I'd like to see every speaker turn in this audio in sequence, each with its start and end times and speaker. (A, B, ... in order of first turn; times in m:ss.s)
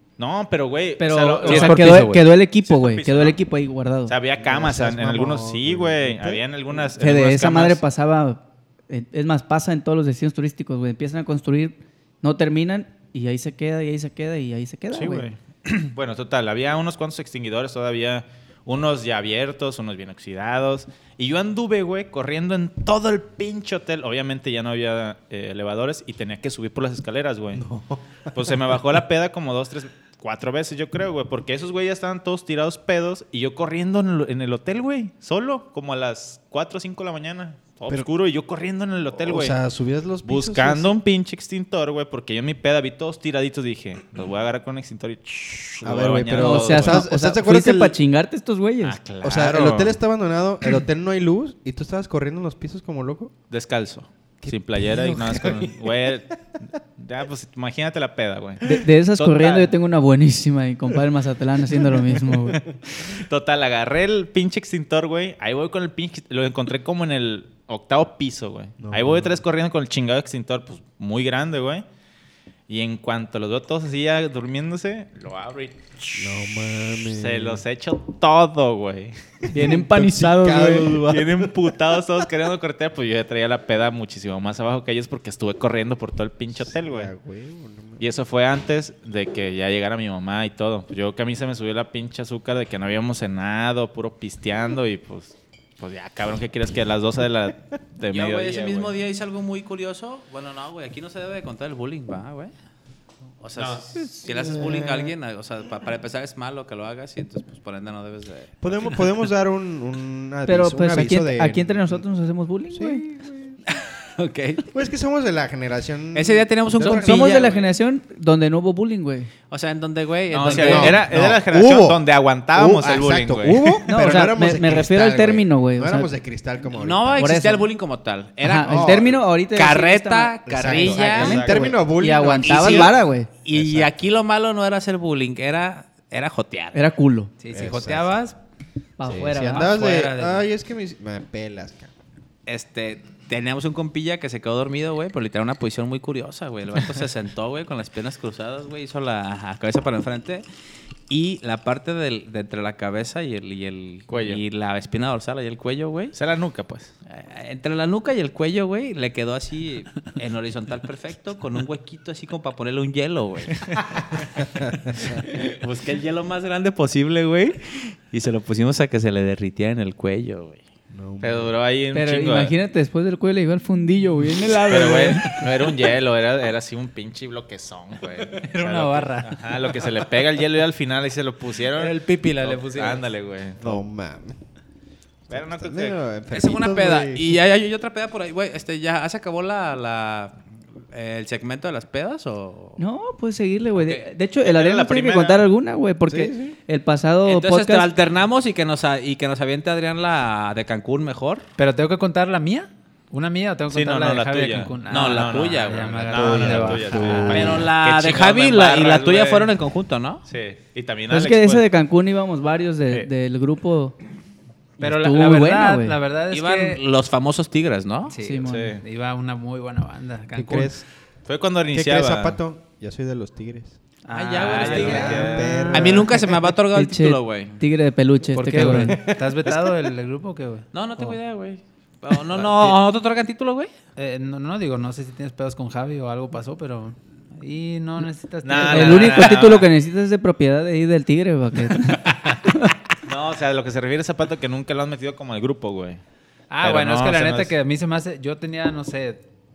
0:00.2-0:03.4 A
0:01.0-0:04.1 B
0:01.4-0:02.2 C
0:04.1-0:07.8 A
0:04.4-0:06.4 D
0:07.0-0:15.2 B
0:14.9-0:27.6 A
0:27.6-0:28.5 D
0:28.3-0:39.6 A
0:39.2-0:40.9 D
0:40.2-0:47.0 A
0:45.8-0:48.0 D
0:46.3-0:49.0 B
0:48.8-0:49.9 A
0:49.2-0:53.3 D
0:53.5-0:56.4 A
0:54.4-0:56.1 D
0:57.0-0:59.7 A
0:58.6-1:02.6 B
1:02.8-1:11.8 A
1:08.8-1:09.4 D
1:12.7-1:16.2 A
1:16.1-1:17.6 D
1:17.0-1:19.1 A
1:19.5-1:21.0 B
1:19.5-1:21.7 D
1:21.0-1:27.1 A
1:26.5-1:28.0 D
1:28.0-1:38.9 A
1:38.1-1:42.5 E
1:43.4-1:49.1 E
1:43.6-1:43.8 A
1:44.2-1:45.1 D
1:48.6-1:52.0 D
1:50.4-1:53.0 B
1:52.7-1:53.6 D
1:53.7-1:54.7 E
1:54.7-1:57.5 D
1:56.1-1:57.6 E
1:56.8-1:59.3 B
1:59.5-2:01.1 E
2:00.3-2:03.8 A
2:00.4-2:07.4 D
2:03.8-2:06.1 B
2:06.7-2:11.5 E
2:07.2-2:07.7 B
2:08.4-2:13.3 B
2:08.6-2:09.2 D
2:10.4-2:12.9 D
2:10.9-2:11.8 A
2:12.4-2:16.8 E
2:13.5-2:13.9 D
2:16.7-2:17.3 B
2:17.4-2:18.4 C
2:17.5-2:18.1 D
2:19.0-2:19.8 B
2:19.0-2:21.9 D
2:19.4-2:20.4 C
2:22.5-2:30.4 E
2:31.1-2:36.1 E
2:34.1-2:34.4 A
2:36.1-2:36.9 A
2:37.1-2:43.6 E
2:44.9-2:45.2 D
2:45.0-2:50.6 E
2:50.9-2:51.5 D
2:51.2-2:52.5 A
2:51.9-2:55.4 B
2:54.6-3:03.8 A
2:58.4-2:59.6 C
3:01.8-3:03.1 C
3:03.6-3:04.4 D
3:05.3-3:07.4 D
3:05.3-3:06.0 A
3:06.3-3:10.4 E
3:10.9-3:12.8 E
3:12.8-3:17.9 B
3:13.8-3:15.4 A
3:16.1-3:16.6 D
3:17.2-3:21.4 E
3:21.6-3:27.6 C
3:23.7-3:29.6 A
3:24.9-3:30.2 E
3:26.9-3:27.6 D
3:30.3-3:31.6 A
3:31.1-3:34.0 B
3:34.8-3:36.0 B
3:34.8-3:36.8 C
3:36.3-3:38.2 E
3:38.1-3:40.8 C
3:38.2-3:38.8 B
3:38.4-3:38.8 A
3:40.3-3:40.8 D
3:41.2-3:42.4 A
3:41.7-3:43.8 D
3:44.0-3:46.1 C
3:44.1-3:47.6 E
3:44.4-3:45.7 A
3:44.6-3:46.3 D
3:46.7-3:49.0 B
3:48.3-3:51.2 C
3:48.8-3:49.6 D
3:50.7-3:53.7 E
3:52.3-3:52.7 A
3:54.0-3:59.4 C
3:58.4-3:59.7 A
3:58.6-4:02.7 B
4:03.0-4:06.0 A
4:06.5-4:09.2 C
4:06.6-4:07.5 A